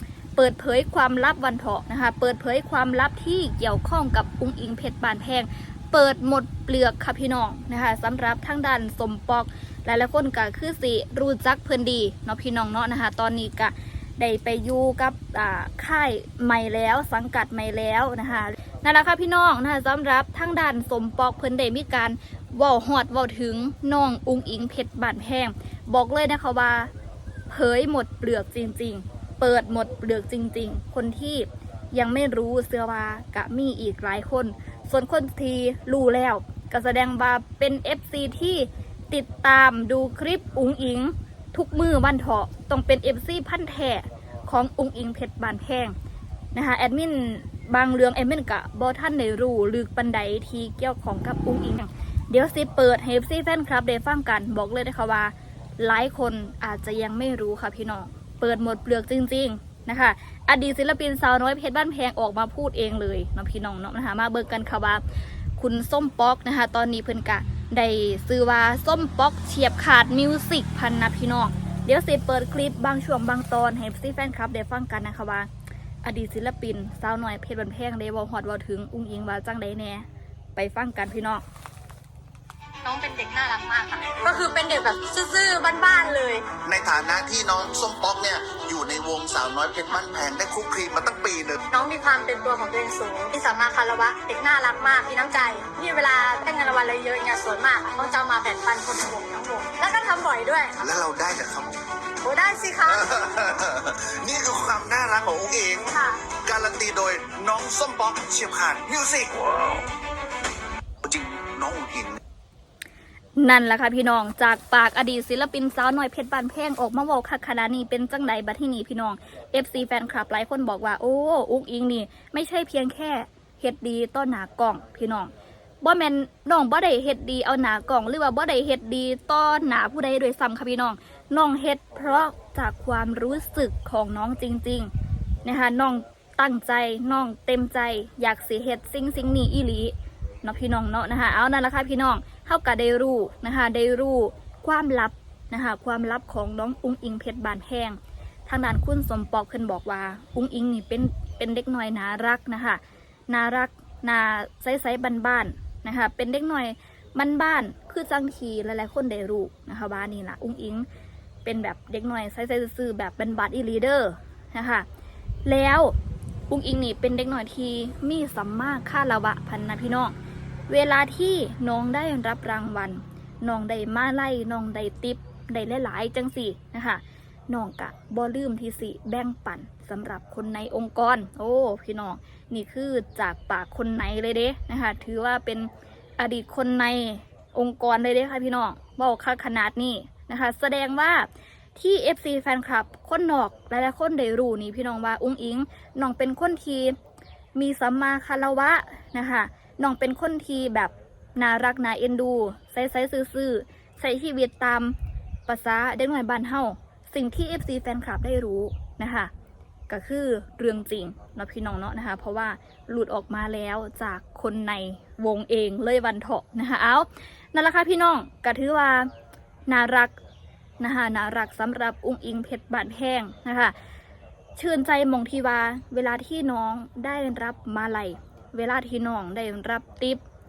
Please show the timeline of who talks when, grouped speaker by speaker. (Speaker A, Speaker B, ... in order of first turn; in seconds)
Speaker A: 0.4-26.9, 27.5-46.0, 46.5-65.0, 65.6-75.5, 76.0-80.0, 80.6-81.4, 113.4-125.3, 125.8-134.9, 135.4-160.9, 161.4-164.9, 165.5-165.9, 166.5-170.2, 170.7-197.0, 197.6-204.9, 205.5-209.3, 209.9-219.1, 219.7-220.2, 220.8-223.8, 224.6-230.2
Speaker B: 82.8-86.5, 91.7-100.8, 102.2-103.1, 105.9-106.2
Speaker C: 86.7-91.6, 100.8-101.8, 102.9-105.9, 106.5-109.8, 111.0-112.2